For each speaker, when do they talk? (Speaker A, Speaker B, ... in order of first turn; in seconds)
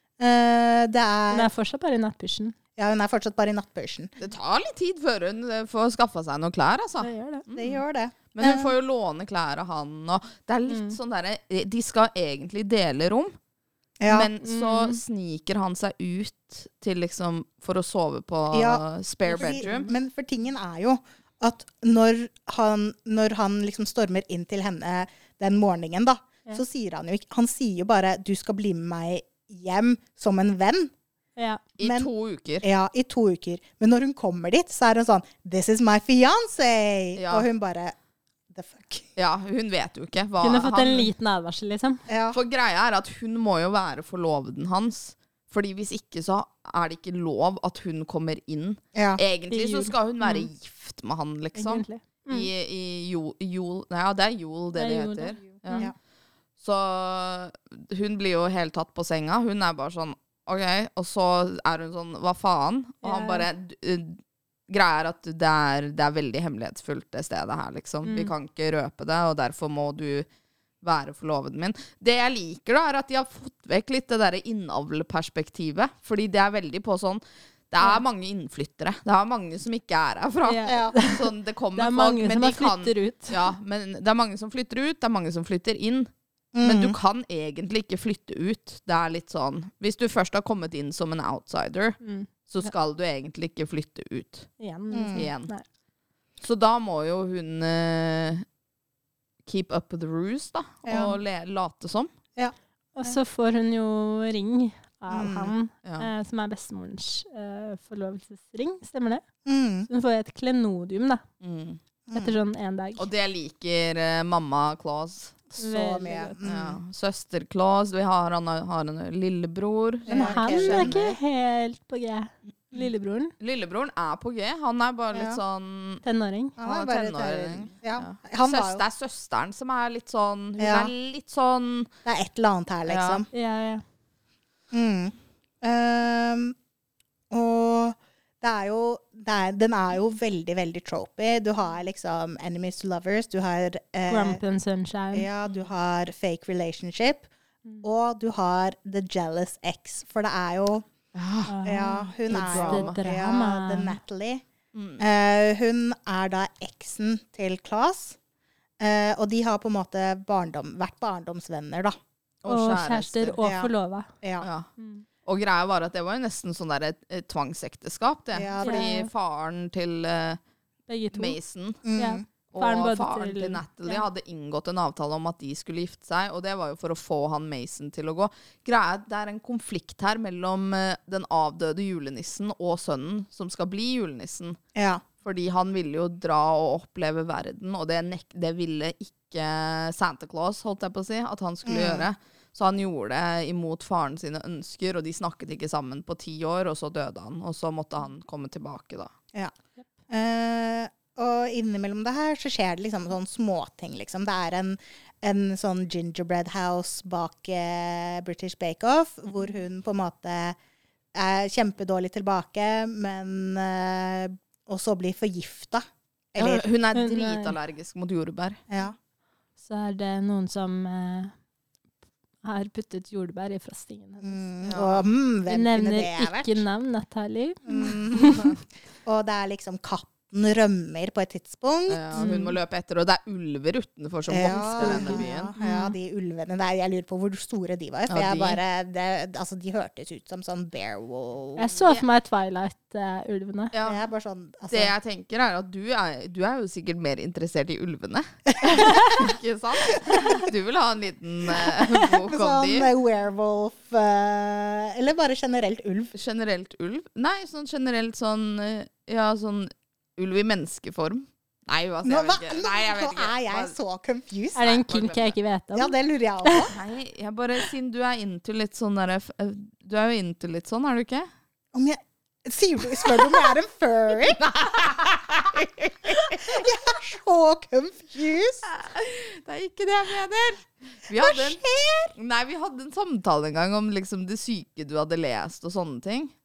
Speaker A: 0.2-1.5, 2.8-4.1, 7.5-8.7, 14.0-14.3, 18.5-30.9, 31.8-32.1, 32.6-37.9, 38.5-39.1, 42.1-42.4, 48.9-49.2, 80.7-81.0, 86.5-86.9, 94.9-95.3, 100.8-101.2, 105.1-105.5, 109.4-109.9, 112.1-112.3, 115.6-116.8, 120.0-121.0, 125.1-125.4, 126.6-128.8, 130.6-130.9, 132.0-133.3, 134.7-136.6, 137.3-144.4, 145.1-147.3, 147.8-150.9, 151.6-154.4, 155.0-158.2, 158.8-161.9, 163.4-164.5, 168.3-168.9, 171.8-172.2, 184.7-185.0, 191.6-192.1, 200.1-210.6, 211.1-215.8, 216.3-216.6, 218.7-218.9, 224.2-226.6, 227.7-232.3, 234.3-241.8, 243.8-244.9, 248.6-249.3, 249.9-250.5, 251.5-256.1, 262.0-264.7, 265.7-266.7, 271.7-278.7, 281.1-282.1
Speaker B: 1.3-2.5, 7.0-7.4, 10.7-11.0, 14.4-15.0, 19.4-19.9, 31.4-31.6, 40.4-42.0, 49.5-50.5, 51.5-52.5, 54.7-55.9, 63.0-63.5, 68.0-68.3, 80.4-83.5, 92.0-92.7, 94.6-95.6, 103.0-109.2, 109.9-111.2, 112.1-113.0, 115.6-116.4, 120.1-123.3, 126.0-126.5, 133.3-133.8, 144.1-145.3, 151.5-154.0, 162.5-164.1, 164.8-165.0, 168.6-169.1, 170.9-171.4, 171.9-174.0, 216.9-217.6, 219.6-221.3, 222.4-224.4, 225.5-228.5, 232.2-232.6, 234.4-235.9, 241.6-243.7, 248.6-249.2, 264.5-266.7
Speaker C: 4.2-7.8, 8.3-13.3, 14.1-19.9, 31.8-32.7, 37.2-37.5, 39.2-41.1, 42.3-55.9, 56.6-70.3, 70.8-86.1, 86.6-94.5, 95.1-95.5, 96.4-98.4, 99.5-102.1, 105.8-106.1, 111.4-111.8, 113.0-115.4, 116.4-121.1, 123.4-126.0, 126.6-131.9, 132.9-133.2, 151.1-151.6, 152.3-153.0, 154.7-155.0, 162.4-163.4, 164.4-164.7, 165.2-170.4, 171.1-171.8, 172.5-184.6, 185.2-199.1, 216.4-218.6, 224.7-225.1, 231.9-235.5, 238.1-238.6, 243.7-244.0, 244.7-252.9, 256.1-263.7, 264.6-265.3, 266.7-271.3, 278.6-281.6, 282.1-286.3